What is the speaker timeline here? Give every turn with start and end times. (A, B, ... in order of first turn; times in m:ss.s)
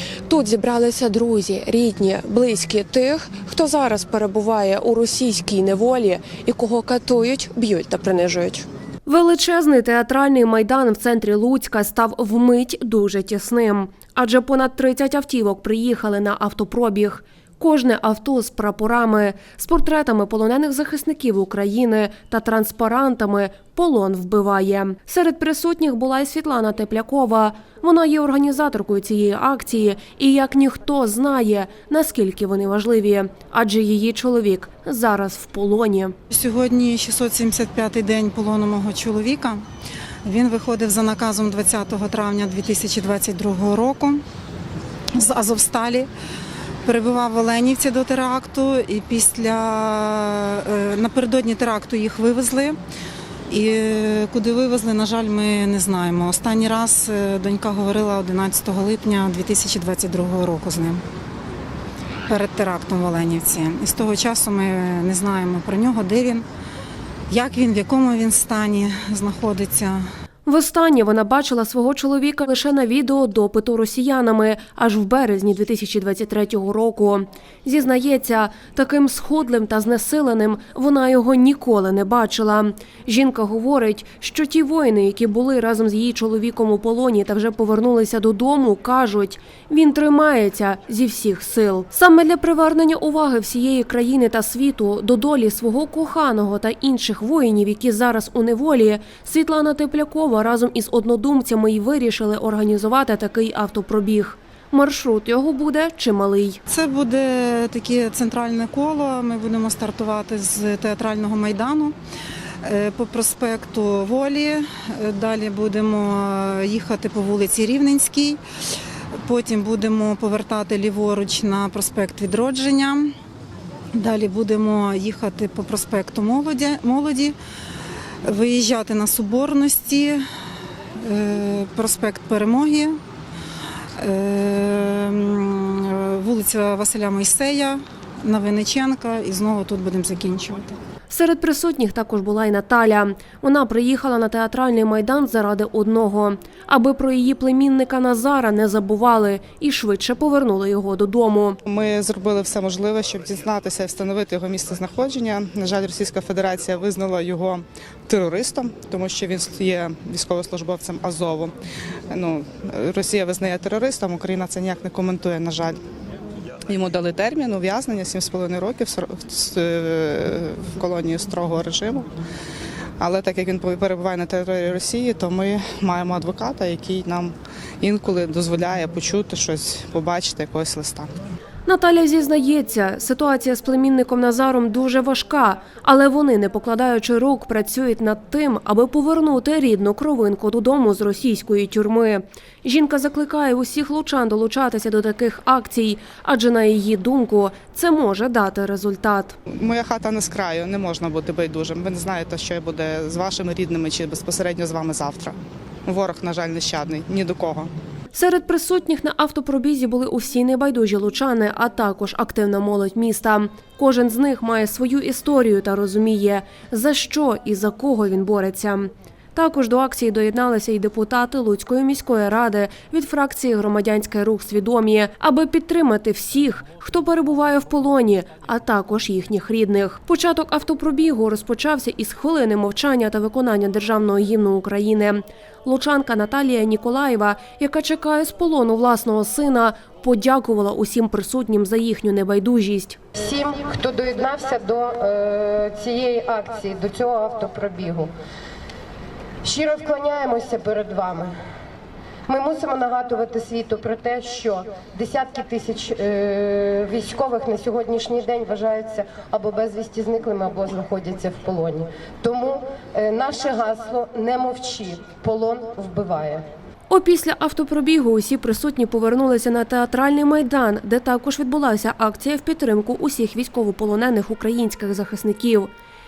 0:00.3-0:36.1 A
0:36.3-0:39.6 B
0:40.2-0:44.2 B
0:45.1-0:46.1 B
0:46.8-0:52.8 B
0:53.5-1:01.0 B
1:02.3-1:06.4 B
1:07.3-1:10.0 B
1:10.4-1:46.6 A
1:46.7-1:51.9 B
1:52.6-1:58.4 B
1:59.2-2:03.1 B
2:03.9-2:07.3 B
2:08.2-2:10.2 B
2:11.0-2:13.0 B
2:14.0-2:20.8 B
2:21.1-2:31.6 A
2:31.6-2:41.5 C
2:42.1-2:45.8 C
2:46.7-2:52.1 C
2:53.0-3:01.1 C
3:01.6-3:19.4 A
3:19.6-3:27.7 C
3:28.1-4:03.0 A
4:03.2-4:08.1 D
4:09.4-4:11.3 D
4:12.3-4:26.4 D
4:26.9-4:35.7 A